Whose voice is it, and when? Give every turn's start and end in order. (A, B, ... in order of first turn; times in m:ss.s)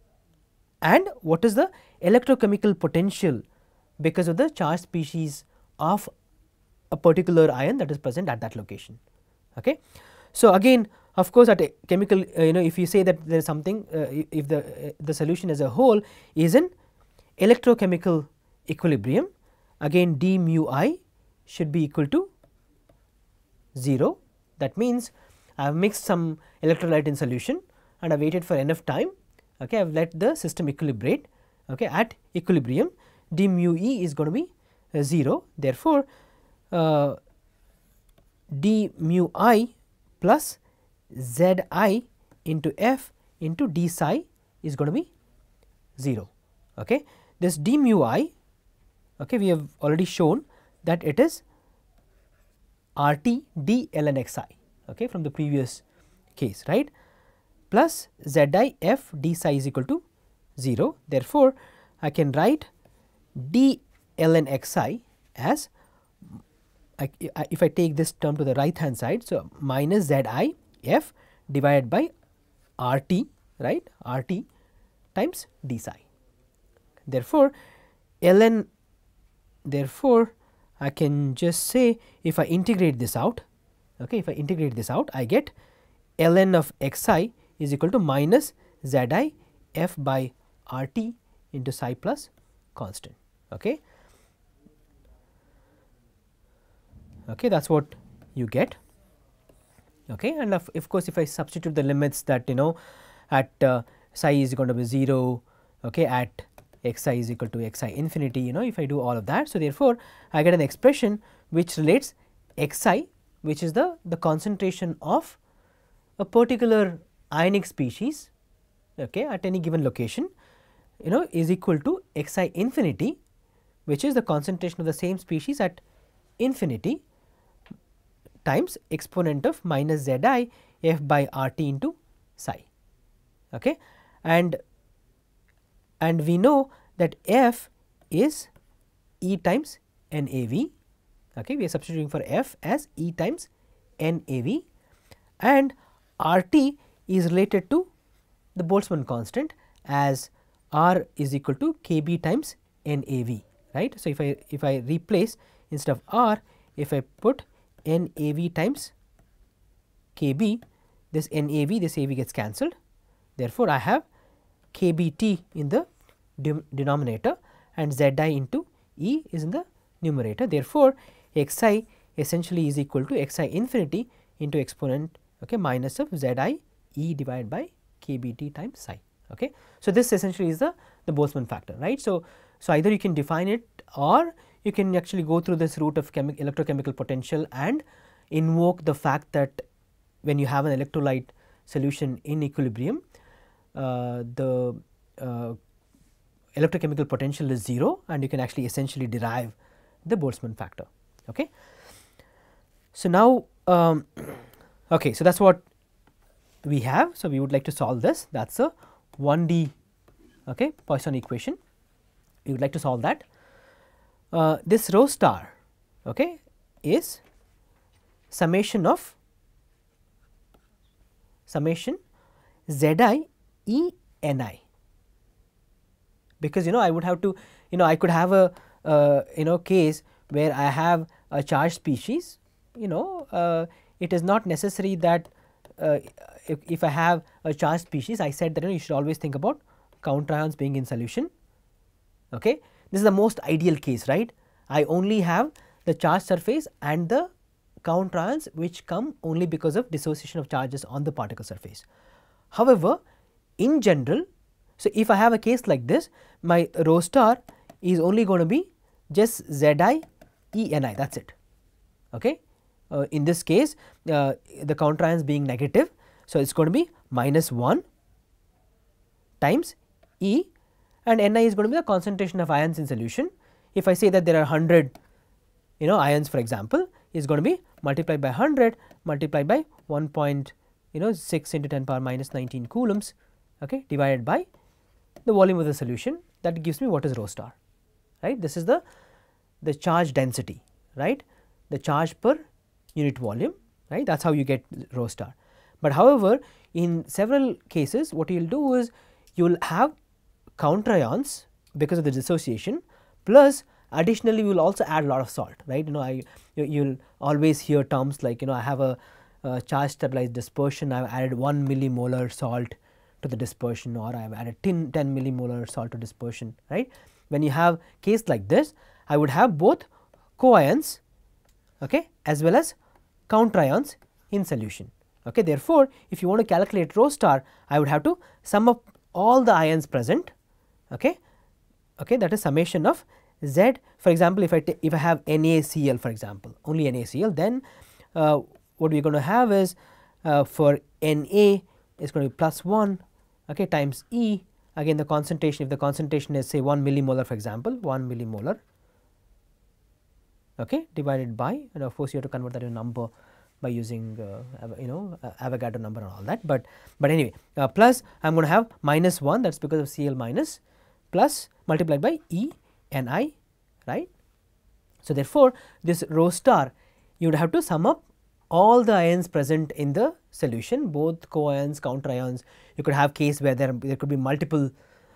0:00.8-0:03.4 A
0:04.0-0:06.1 A
0:06.9-0:09.0 A
0:10.3-0:16.7 A
0:17.4-0:19.3 A
0:19.8-0:22.3 A
0:23.8-0:36.1 A
0:36.7-0:37.2 A
0:38.5-0:40.6 A
0:41.1-0:45.1 A
0:46.0-0:48.3 A
0:49.2-0:51.4 A
0:53.0-0:55.8 A
0:56.4-0:56.9 A
0:57.7-1:00.0 A
1:00.6-1:02.7 A
1:03.4-1:05.7 A
1:07.0-1:12.1 A
1:12.8-1:14.5 A
1:15.1-1:16.0 A
1:17.1-1:17.5 A
1:18.2-1:18.7 A
1:19.6-1:23.4 A
1:24.0-1:25.5 A
1:26.2-1:33.8 A
1:37.3-1:38.8 A
1:40.1-1:42.8 A
1:43.3-1:55.4 A
1:56.2-1:58.3 A
1:59.0-2:00.3 A
2:01.0-2:03.2 A
2:03.8-2:05.8 A
2:06.4-2:07.0 A
2:08.4-2:12.7 A
2:13.5-2:14.6 A
2:16.0-2:18.5 A
2:19.2-2:20.7 A
2:21.4-2:23.5 A
2:24.0-2:24.6 A
2:25.4-2:27.9 A
2:28.5-2:38.9 A
2:40.2-2:42.7 A
2:43.4-2:44.1 A
2:44.7-2:45.9 A
2:46.4-3:09.6 A
3:10.2-3:13.0 A
3:13.7-3:15.6 A
3:16.6-3:21.5 A
3:22.9-3:25.6 A
3:26.6-3:29.7 A
3:30.5-3:31.6 A
3:32.4-3:33.3 A
3:34.3-3:37.2 A
3:38.3-3:39.2 A
3:41.5-3:42.0 A
3:42.7-3:44.6 A
3:46.4-4:01.3 A
4:02.3-4:07.3 A
4:07.8-4:11.8 A
4:12.5-4:13.0 A
4:13.6-4:14.2 A
4:14.8-4:21.4 A
4:22.1-4:27.8 A
4:29.4-4:30.5 A
4:31.0-4:34.9 A
4:35.8-4:44.5 A
4:45.2-4:47.6 A
4:48.2-4:48.8 A
4:49.6-4:59.9 A
5:00.6-5:21.0 A
5:21.8-5:22.8 A
5:23.3-5:30.3 A
5:30.9-5:31.2 A
5:32.0-5:37.6 A
5:38.1-5:48.6 A
5:50.6-5:53.1 A
5:53.6-6:00.6 A
6:01.1-6:03.4 A
6:05.0-6:14.7 A